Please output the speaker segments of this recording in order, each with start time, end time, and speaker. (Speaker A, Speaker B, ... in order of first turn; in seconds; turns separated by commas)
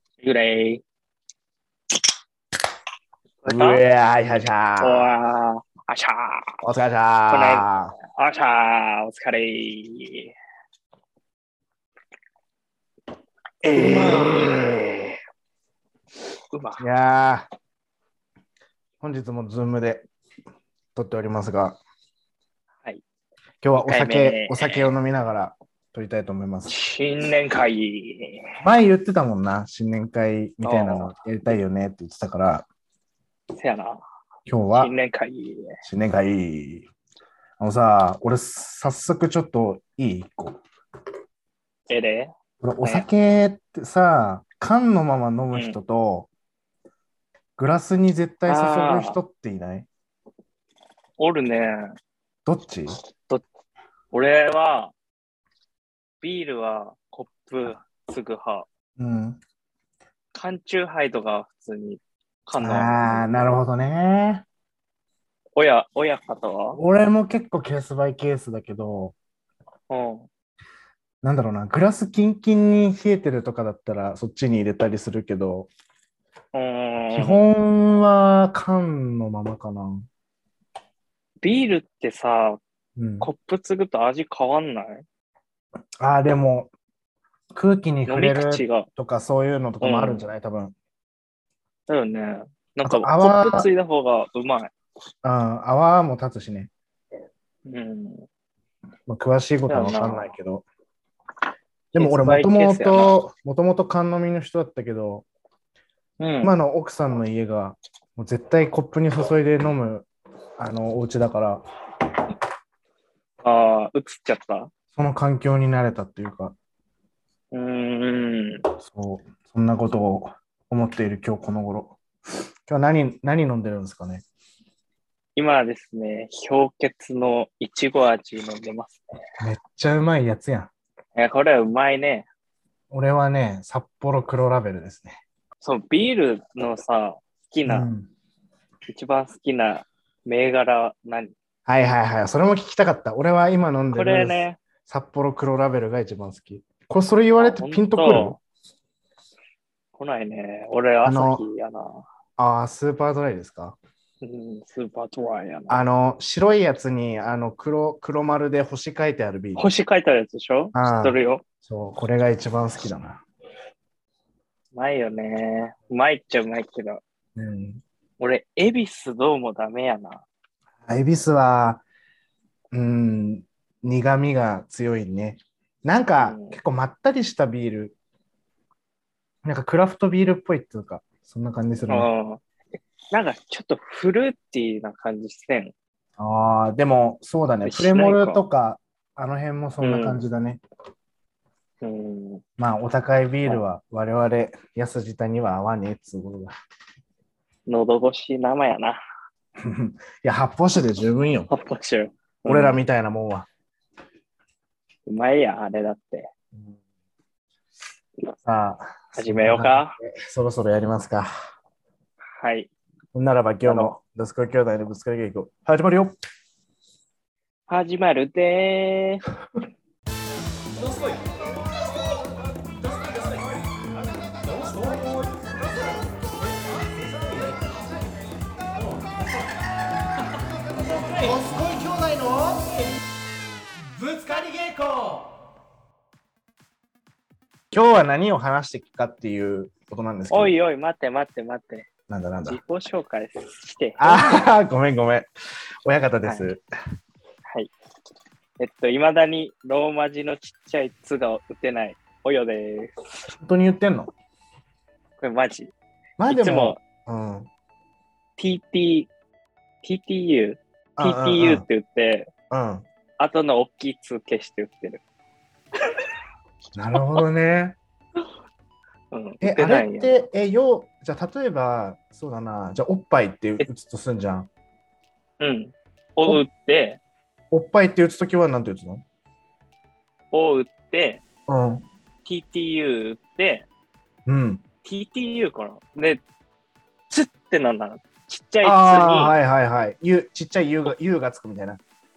Speaker A: 0.2-0.8, Speaker A: 3.4-3.8, Speaker B: 3.5-5.1, Speaker A: 4.8-6.6, Speaker B: 6.6-8.0, Speaker A: 7.3-10.3, Speaker B: 13.6-14.4, Speaker A: 13.7-15.1, Speaker A: 16.5-16.9, Speaker B: 16.8-17.5, Speaker B: 19.0-20.1, Speaker B: 20.9-21.8, Speaker B: 23.6-26.7, Speaker A: 23.8-24.9, Speaker A: 26.7-28.6, Speaker B: 28.6-32.6, Speaker A: 30.6-31.1, Speaker A: 33.5-34.0, Speaker B: 34.5-34.9, Speaker A: 34.8-35.8, Speaker B: 35.8-36.9, Speaker B: 37.6-40.6, Speaker A: 41.9-43.1, Speaker B: 42.6-46.3, Speaker A: 45.5-45.8, Speaker B: 47.6-49.9, Speaker A: 48.5-49.2, Speaker A: 51.2-51.9, Speaker B: 52.5-53.0, Speaker A: 54.1-54.9, Speaker A: 56.2-58.7, Speaker B: 59.0-59.4, Speaker A: 60.3-63.5, Speaker B: 62.6-64.4, Speaker A: 65.6-66.8, Speaker B: 66.7-69.2, Speaker A: 69.9-70.3, Speaker B: 71.2-75.7, Speaker A: 76.5-77.4, Speaker B: 77.1-80.1, Speaker A: 81.4-82.6, Speaker B: 83.0-83.3, Speaker A: 83.2-85.0, Speaker B: 86.0-86.7, Speaker B: 87.5-90.8, Speaker A: 88.1-88.9, Speaker A: 89.8-90.2, Speaker A: 91.9-94.7, Speaker B: 92.8-93.7, Speaker B: 95.2-96.7, Speaker A: 97.7-98.3, Speaker B: 99.1-100.7, Speaker A: 99.7-100.3, Speaker B: 101.9-105.3, Speaker A: 102.0-103.2, Speaker A: 106.2-106.5, Speaker B: 106.4-110.1, Speaker B: 110.6-111.6, Speaker A: 113.4-114.7, Speaker B: 114.9-116.5, Speaker A: 117.5-118.7, Speaker B: 118.8-122.0, Speaker B: 122.7-124.2, Speaker A: 125.4-129.0, Speaker B: 129.4-130.7, Speaker A: 131.2-132.3, Speaker B: 132.9-135.2, Speaker A: 135.6-137.9, Speaker B: 137.7-138.1, Speaker A: 138.9-141.3, Speaker B: 141.7-148.4, Speaker A: 143.9-144.6, Speaker A: 147.4-148.4, Speaker A: 150.0-152.1, Speaker B: 151.0-151.4, Speaker B: 152.4-153.8, Speaker A: 154.2-155.8, Speaker B: 155.7-159.7, Speaker A: 159.6-161.4, Speaker B: 160.8-163.2, Speaker A: 164.7-167.0, Speaker B: 167.3-167.8, Speaker A: 168.2-170.2, Speaker B: 170.8-171.8, Speaker B: 172.7-177.9, Speaker A: 176.2-176.6, Speaker B: 179.4-182.1, Speaker A: 181.9-182.4, Speaker A: 183.1-185.7, Speaker B: 186.2-190.6, Speaker A: 187.7-188.4, Speaker A: 189.8-190.2, Speaker A: 191.8-192.4, Speaker B: 192.6-196.5, Speaker A: 197.7-199.0, Speaker B: 199.6-201.5, Speaker A: 201.5-202.8, Speaker B: 202.5-203.5, Speaker A: 205.1-206.3, Speaker B: 208.4-211.3, Speaker A: 209.2-210.0, Speaker A: 212.4-212.7, Speaker B: 213.1-216.2, Speaker A: 213.7-213.9, Speaker A: 217.7-219.3, Speaker B: 220.8-227.8, Speaker B: 228.8-229.2, Speaker B: 230.8-233.0, Speaker B: 233.9-235.3, Speaker B: 237.7-240.5, Speaker A: 240.3-241.9, Speaker B: 242.1-242.6, Speaker A: 242.5-244.4, Speaker B: 244.0-245.3, Speaker B: 245.8-246.6, Speaker A: 248.6-253.3, Speaker B: 253.3-254.1, Speaker A: 255.2-255.7, Speaker B: 256.2-257.5, Speaker A: 256.3-256.8, Speaker A: 258.4-259.1, Speaker A: 259.8-262.3, Speaker B: 261.0-261.6, Speaker B: 262.5-262.9, Speaker A: 263.2-265.0, Speaker B: 266.8-267.8, Speaker A: 269.1-270.2, Speaker B: 269.4-274.5, Speaker A: 275.4-277.0, Speaker B: 277.5-279.0, Speaker A: 280.3-281.2, Speaker B: 281.5-281.9, Speaker A: 282.2-283.7, Speaker B: 284.3-284.6, Speaker A: 284.8-286.2, Speaker A: 287.1-289.3, Speaker B: 288.6-291.8